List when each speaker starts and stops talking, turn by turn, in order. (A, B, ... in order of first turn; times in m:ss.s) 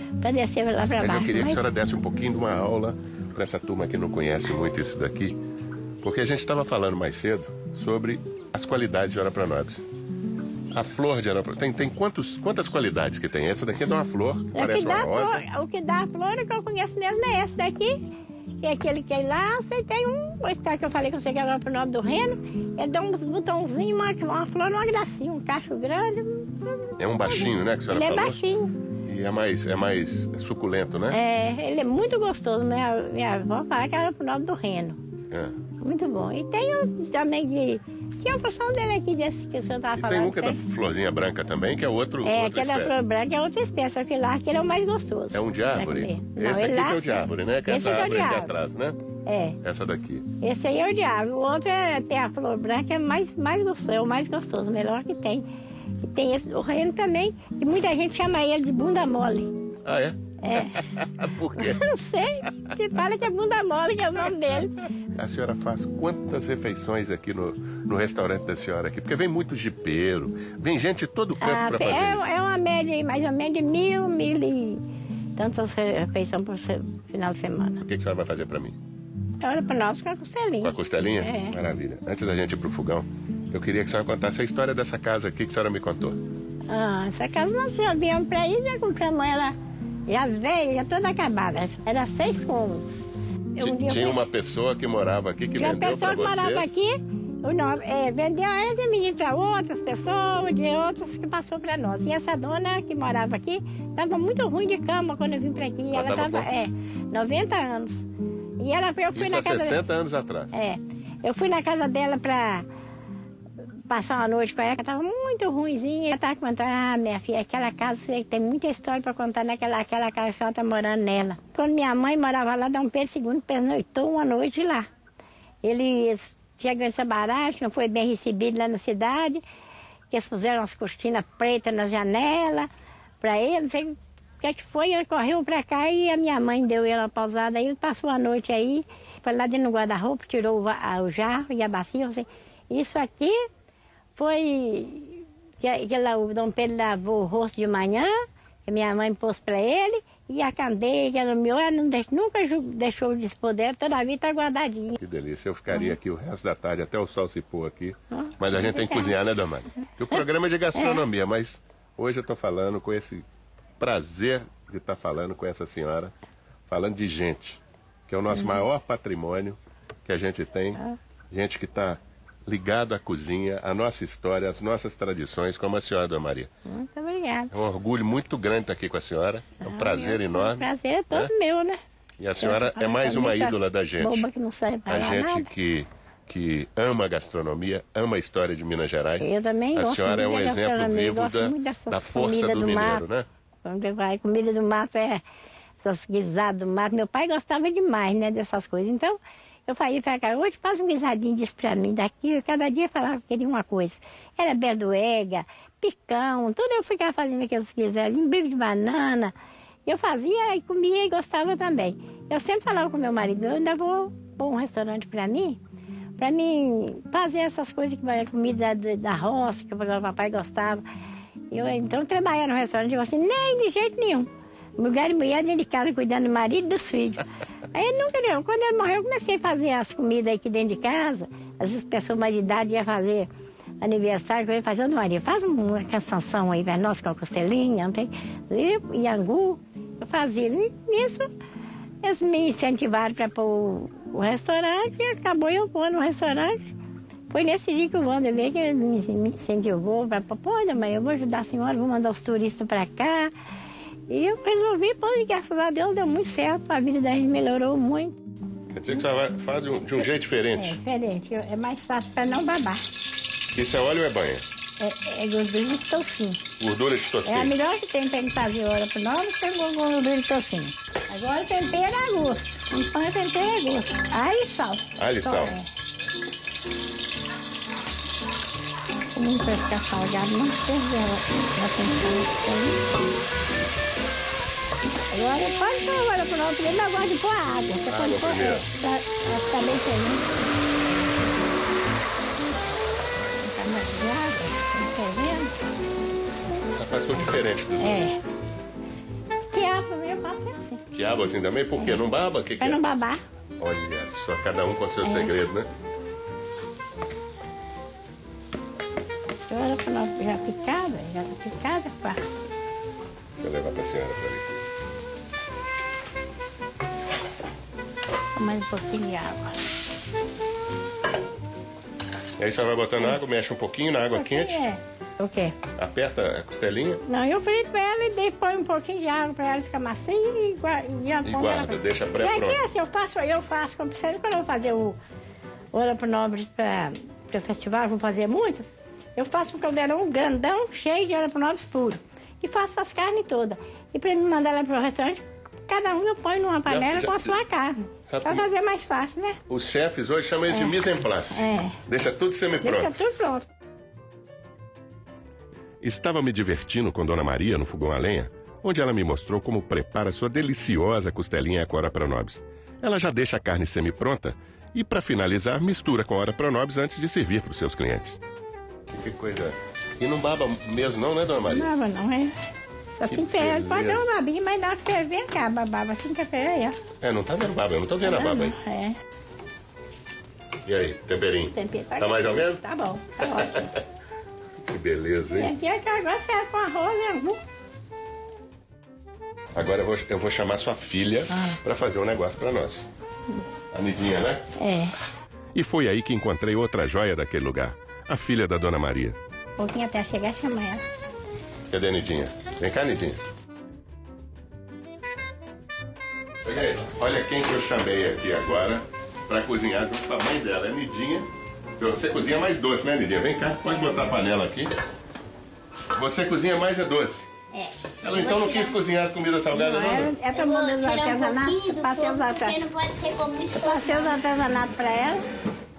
0:00.2-0:01.6 A
0:01.0-0:05.4 B
0:06.0-0:09.8 B
0:10.7-0:15.4 B
0:14.5-0:18.0 A
0:18.6-0:28.7 A
0:27.0-0:28.4 B
0:29.0-0:31.2 B
0:31.1-0:35.0 A
0:35.3-0:35.6 B
0:35.8-0:40.6 A
0:39.9-0:43.0 B
0:42.2-0:48.5 A
0:45.3-0:49.0 B
0:49.2-0:49.6 A
0:49.6-0:50.2 B
0:50.4-0:55.4 A
0:56.0-0:59.5 A
0:59.8-1:01.9 B
1:00.4-1:00.8 A
1:01.5-1:04.8 A
1:05.1-1:12.3 B
1:11.4-1:14.8 A
1:15.4-1:17.8 A
1:17.8-1:18.8 B
1:19.4-1:21.6 A
1:20.6-1:26.2 B
1:26.7-1:29.6 A
1:30.1-1:32.9 A
1:33.5-1:34.2 A
1:33.6-1:36.8 B
1:35.6-1:49.8 A
1:45.9-1:46.5 B
1:49.1-1:50.6 B
1:50.5-1:52.6 A
1:53.9-2:04.9 A
2:05.6-2:09.4 A
2:10.1-2:12.7 A
2:13.2-2:23.4 A
2:24.1-2:28.1 A
2:28.6-2:35.0 A
2:35.0-2:43.2 B
2:35.7-2:35.9 A
2:38.1-2:39.2 A
2:40.7-2:41.0 A
2:43.8-2:46.1 B
2:46.7-2:56.5 B
2:48.3-2:48.6 A
2:56.6-2:57.5 A
2:57.5-3:01.3 B
2:59.6-3:01.8 A
3:02.2-3:04.3 B
3:02.4-3:05.5 A
3:04.9-3:13.3 B
3:09.2-3:13.0 A
3:13.6-3:15.2 A
3:15.8-3:19.2 A
3:19.7-3:29.3 A
3:29.8-3:35.6 A
3:36.2-3:40.8 A
3:41.5-3:53.3 A
3:53.8-4:01.3 A
4:02.0-4:06.7 A
4:07.3-4:13.3 A
4:14.1-4:18.2 A
4:18.7-4:20.8 B
4:20.5-4:22.8 A
4:23.5-4:24.4 B
4:24.8-4:26.4 A
4:26.6-4:27.5 B
4:27.2-4:35.7 A
4:35.0-4:35.6 B
4:39.1-4:42.8 A
4:45.1-4:50.3 A
4:47.9-4:48.7 B
4:53.4-4:55.5 A
4:56.7-4:58.1 B
4:57.8-4:58.2 A
4:59.5-5:00.8 A
5:00.9-5:02.8 B
5:02.6-5:03.2 A
5:03.6-5:05.7 B
5:05.0-5:05.3 A
5:09.5-5:12.4 A
5:13.4-5:14.5 B
5:18.4-5:19.6 A
5:22.4-5:24.6 B
5:24.1-5:25.6 A
5:25.8-5:27.0 B
5:27.0-5:35.0 A
5:31.2-5:32.6 B
5:35.7-5:49.4 A
5:46.6-5:47.4 B
5:48.0-5:48.4 B
5:49.5-5:53.0 B
5:50.5-5:50.7 A
5:51.3-5:51.8 A
5:52.6-5:53.5 A
5:55.8-6:08.2 B
6:08.9-6:11.7 B
6:11.4-6:12.3 A
6:13.0-6:16.8 A
6:13.1-6:14.1 B
6:17.0-6:18.5 B
6:18.0-6:19.0 A
6:20.6-6:22.6 B
6:21.5-6:23.6 A
6:23.2-6:23.8 B
6:24.6-6:25.5 B
6:25.3-6:27.4 A
6:29.5-6:32.9 B
6:31.3-6:31.6 A
6:33.7-6:34.4 B
6:34.6-6:34.9 A
6:35.5-6:39.2 B
6:39.6-6:40.8 A
6:41.7-6:43.2 B
6:46.4-6:54.8 B
6:55.9-6:57.3 B
6:57.5-6:58.8 C
6:58.0-7:00.1 B
6:59.5-7:02.6 A
7:00.3-7:04.2 C
7:03.5-7:05.2 A